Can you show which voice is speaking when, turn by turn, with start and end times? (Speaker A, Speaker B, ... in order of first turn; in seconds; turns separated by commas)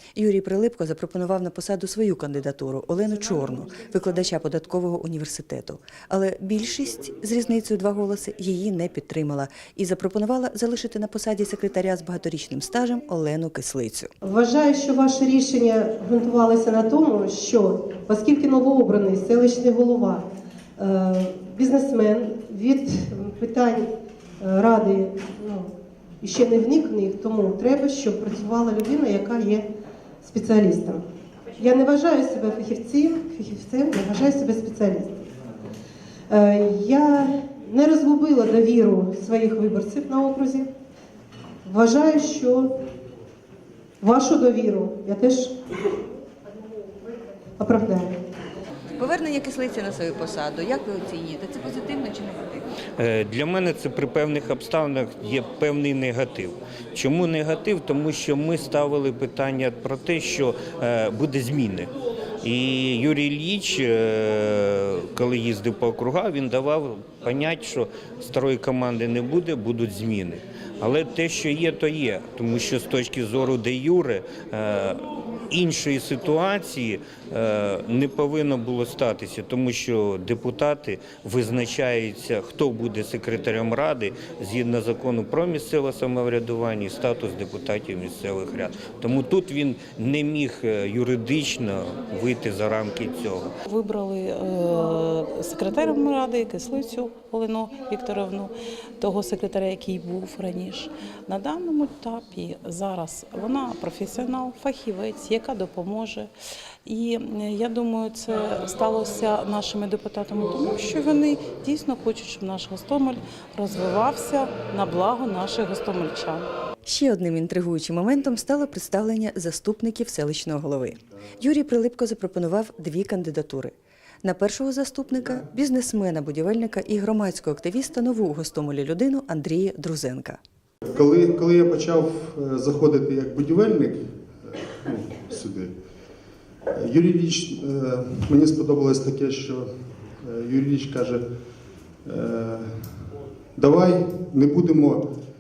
Speaker A: 0.1-14.1, Speaker B: 14.2-20.2, Speaker B: 20.8-23.9, Speaker B: 24.4-25.7, Speaker B: 26.2-29.7, Speaker B: 30.2-31.0, Speaker B: 31.6-35.2, Speaker B: 36.3-40.7, Speaker B: 41.6-42.7, Speaker B: 44.0-45.5, Speaker B: 47.6-48.2, Speaker A: 49.0-52.6, Speaker C: 53.0-61.9, Speaker C: 62.4-93.5, Speaker D: 93.7-106.3, Speaker D: 106.8-116.5, Speaker A: 116.8-130.4, Speaker E: 131.0-133.9, Speaker E: 134.9-135.7, Speaker E: 136.8-139.6, Speaker E: 140.2-141.2, Speaker E: 142.0-142.7, Speaker E: 143.6-145.0